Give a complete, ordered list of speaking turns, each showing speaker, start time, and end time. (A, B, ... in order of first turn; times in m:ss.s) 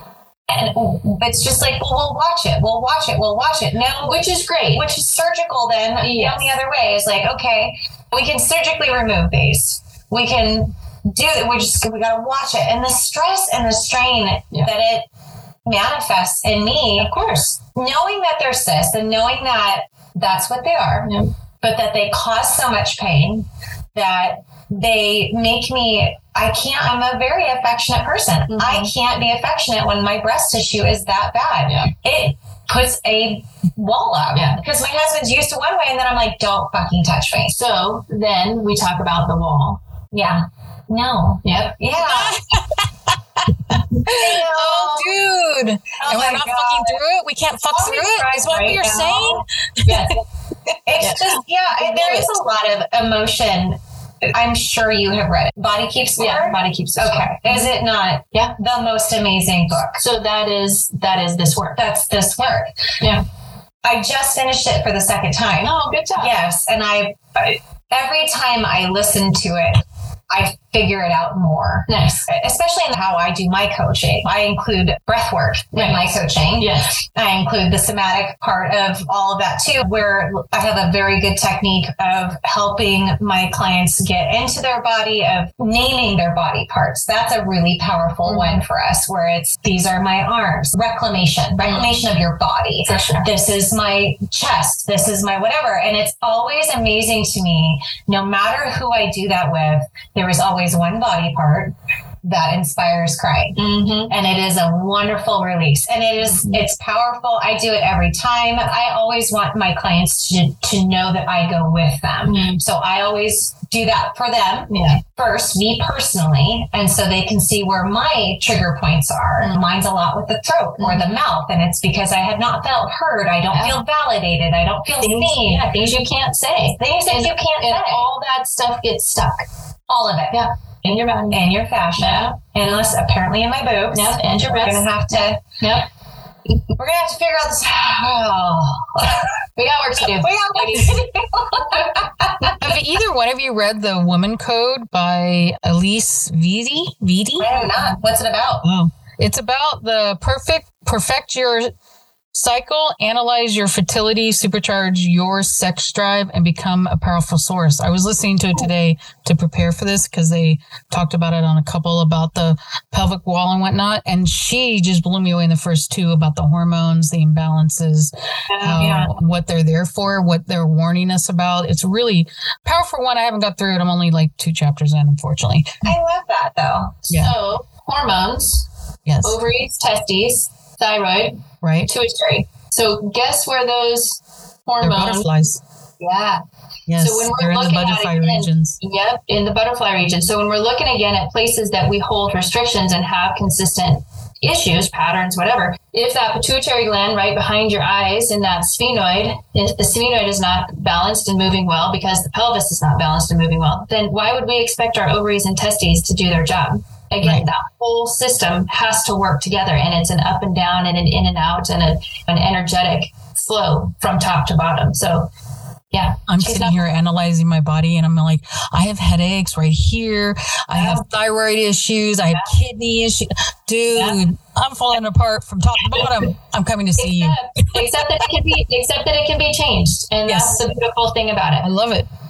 0:00.5-0:15.1 A
0:04.0-0:04.8 B
0:06.0-0:06.6 B
0:15.6-0:17.1 A
0:17.0-0:17.6 B
0:17.7-0:21.1 A
0:21.0-0:21.3 B
0:21.6-0:37.5 A
0:28.5-0:28.9 B
0:31.6-0:31.9 B
0:34.3-0:34.6 B
0:37.5-0:39.8 B
0:40.1-0:42.4 A
0:41.4-0:41.7 B
0:42.0-0:42.9 C
0:43.7-0:50.2 C
0:44.0-0:45.1 A
0:46.0-0:47.0 A
0:47.7-0:49.4 A
0:49.9-0:50.2 B
0:50.9-0:53.8 A
0:51.0-0:51.3 B
0:51.8-0:52.2 B
0:54.3-1:00.0 A
0:56.2-0:57.7 B
1:00.0-1:01.8 B
1:01.8-1:02.7 A
1:03.8-1:43.6 A
1:05.6-1:06.3 B
1:11.9-1:12.3 B
1:15.7-1:16.9 B
1:28.2-1:28.6 B
1:31.6-1:32.0 B
1:32.8-1:33.3 B
1:43.6-1:44.1 B
1:44.1-2:05.7 A
1:46.2-1:46.6 B
1:52.3-1:52.6 B
1:54.7-1:55.0 B
2:00.8-2:01.2 B
2:03.5-2:03.8 B
2:05.0-2:09.4 B
2:06.8-2:08.0 A
2:09.9-2:10.4 A
2:10.3-2:11.4 B
2:11.3-2:15.4 A
2:12.0-2:12.3 B
2:13.9-2:15.9 B
2:16.8-2:19.3 A
2:19.6-2:22.1 B
2:20.0-2:22.6 A
2:22.6-2:27.5 C
2:27.4-2:28.6 A
2:27.5-2:28.0 B
2:28.6-2:31.7 C
2:32.3-2:56.0 C
2:48.5-2:48.8 B
2:48.8-2:49.1 A
2:55.8-2:57.0 A
2:57.0-2:58.6 B
2:59.0-2:59.4 C
2:59.2-3:05.3 B
3:01.6-3:01.9 C
3:04.8-3:05.6 C
3:06.0-3:06.4 B
3:06.9-3:08.8 C
3:07.0-3:35.3 B
3:35.9-3:36.8 B
3:36.3-3:47.9 C
3:40.7-3:41.0 B
3:43.9-3:44.2 B
3:47.0-3:51.6 B
3:50.3-3:50.6 C
3:51.6-3:52.1 C